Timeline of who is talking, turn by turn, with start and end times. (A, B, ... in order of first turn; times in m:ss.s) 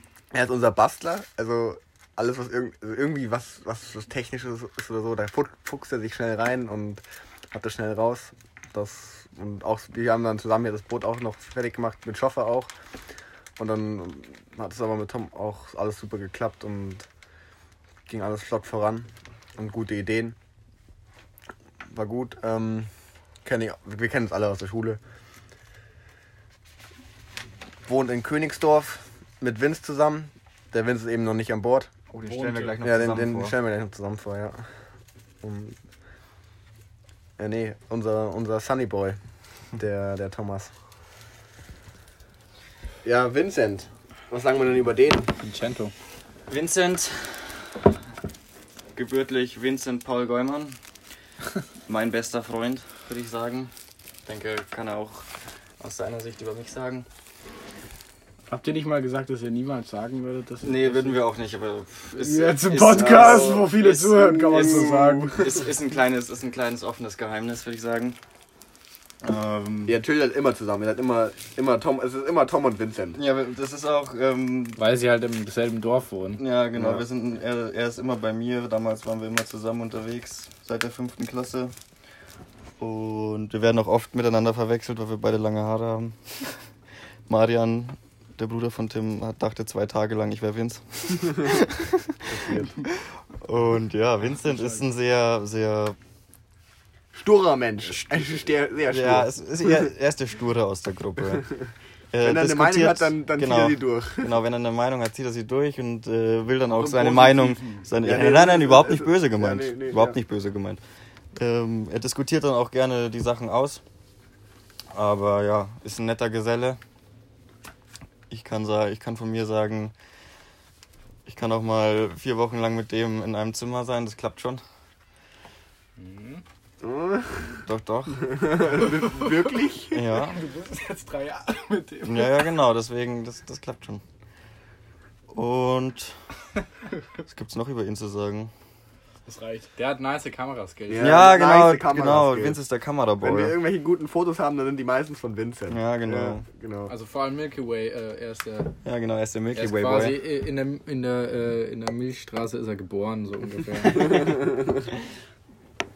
0:00.3-0:12.7 A
0:13.6-0:17.1 A
0:18.1-0:20.4 A
0:21.9-0:22.9 A
0:23.4-0:25.0 A
0:27.9-0:31.9 A
0:32.1-0:33.6 B
0:32.3-0:32.8 C
0:32.8-0:34.6 A
0:35.4-0:35.8 A
0:37.4-0:39.2 A
0:39.8-0:40.7 A
0:43.0-0:45.3 A
0:45.4-0:45.9 D
0:46.5-0:47.8 B
0:49.0-0:50.8 B
0:51.9-0:53.7 B
0:54.3-0:55.3 B
0:55.8-0:57.1 B
0:58.5-1:01.3 C
1:00.6-1:08.2 B
1:02.1-1:05.6 C
1:02.9-1:03.7 A
1:09.2-1:10.0 B
1:09.9-1:13.2 A
1:13.2-1:14.8 B
1:14.8-1:16.4 D
1:16.4-1:21.8 B
1:16.8-1:17.0 A
1:22.8-1:26.6 B
1:27.3-1:32.1 B
1:32.3-1:32.8 A
1:33.3-1:36.0 B
1:34.3-1:34.8 C
1:37.1-1:39.9 A
1:37.9-1:38.2 B
1:38.9-1:41.5 B
1:41.3-1:41.6 A
1:42.1-1:50.8 B
1:42.2-1:44.4 A
1:46.7-1:48.2 C
1:48.0-1:50.2 A
1:51.4-1:53.8 B
1:54.9-1:56.8 B
1:58.3-1:59.9 B
2:01.3-2:04.6 B
2:06.0-2:06.4 D
2:06.8-2:07.6 A
2:07.7-2:08.2 B
2:08.2-2:10.0 A
2:08.8-2:09.4 C
2:09.9-2:10.4 B
2:10.1-2:12.5 C
2:12.0-2:14.0 B
2:15.3-2:16.2 B
2:17.2-2:18.5 B
2:19.3-2:19.7 C
2:19.8-2:21.2 D
2:20.9-2:22.6 A
2:21.0-2:23.6 B
2:23.2-2:26.9 A
2:25.7-2:26.4 B
2:26.9-2:28.8 D
2:28.8-2:30.2 B
2:29.5-2:34.4 D
2:33.9-2:34.9 A